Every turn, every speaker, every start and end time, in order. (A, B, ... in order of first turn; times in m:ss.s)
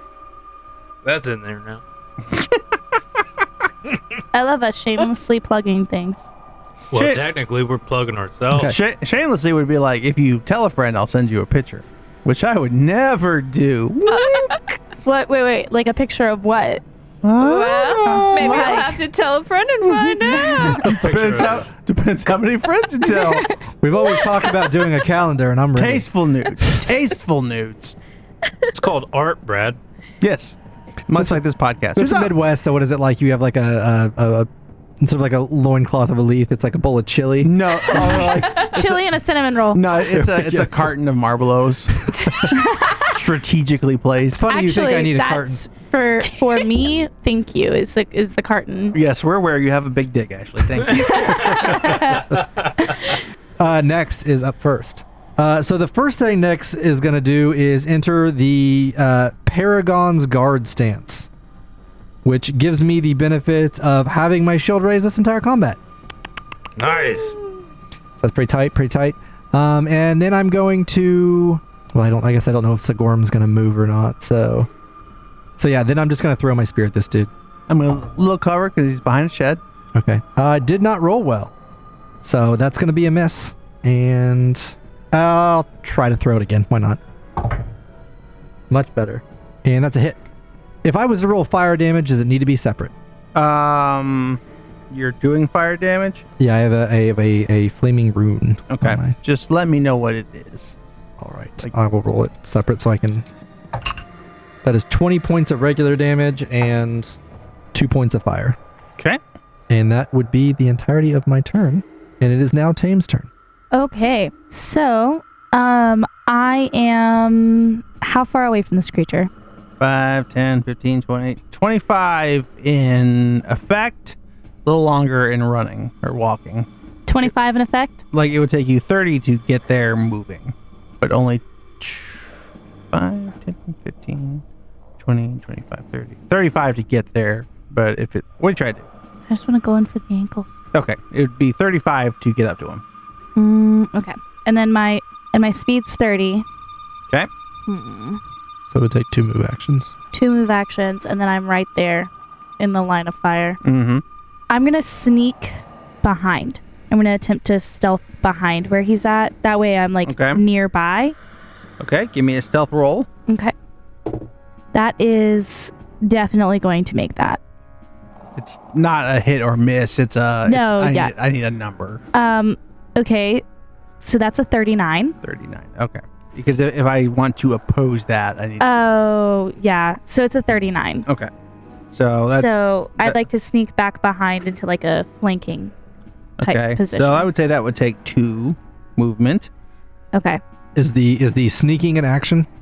0:01.0-0:01.8 A
0:04.3-0:06.2 B
0:06.9-0:07.2 C
0:06.9-0:08.7 A
0:08.5-0:14.6 C
0:14.1-0:14.6 D
0:15.0-0:16.8 B
0:17.2-0:18.8 C
0:17.4-0:20.9 D
0:18.0-0:19.0 B
0:19.8-0:23.5 C
0:20.7-0:21.7 A
0:23.8-0:26.1 E
0:24.1-0:24.7 D
0:25.8-0:28.0 C
0:28.7-0:29.8 A
0:30.2-0:32.3 C
0:31.2-0:31.4 E
0:31.9-0:34.5 E
0:35.0-0:38.7 E
0:37.4-0:39.0 C
0:37.9-0:39.8 B
0:39.7-0:42.0 C
0:40.0-0:40.9 E
0:41.9-0:42.6 E
0:42.5-0:43.1 B
0:43.1-0:44.4 C
0:44.3-0:45.6 E
0:44.5-0:49.0 B
0:46.3-0:46.6 D
0:48.9-0:51.7 C
0:51.2-0:52.3 B
0:53.6-1:01.3 E
1:02.2-1:05.8 E
1:06.8-1:07.4 A
1:08.2-1:14.7 E
1:15.6-1:17.3 E
1:17.7-1:19.6 C
1:19.9-1:21.5 E
1:22.2-1:27.5 E
1:28.7-1:30.2 E
1:30.8-1:32.9 E
1:33.3-1:36.2 C
1:36.4-1:39.2 E
1:38.7-1:40.8 C
1:41.2-1:43.2 E
1:44.6-1:47.2 E
1:47.7-1:48.6 E
1:49.7-1:53.3 E
1:53.7-1:59.3 B
1:59.8-2:06.7 C
2:07.1-2:08.0 B
2:08.1-2:12.3 C
2:12.9-2:14.4 C
2:15.0-2:18.9 C
2:19.3-2:20.5 B
2:20.7-2:22.8 C
2:23.4-2:26.4 B
2:27.7-2:28.2 B
2:28.7-2:29.9 E
2:30.1-2:33.6 B
2:33.6-2:34.0 C
2:34.5-2:41.2 B
2:40.0-2:40.4 C
2:41.8-2:43.1 C
2:43.3-2:43.5 B
2:44.7-2:47.4 B
2:48.4-2:52.0 C
2:50.4-2:51.1 B
2:52.1-2:53.4 B
2:54.0-2:55.2 B
2:55.2-2:58.6 C
2:58.6-3:01.0 B
3:01.9-3:03.2 C
3:02.3-3:05.7 B
3:06.4-3:09.5 C
3:06.4-3:07.3 B
3:10.1-3:10.4 B
3:10.8-3:12.5 E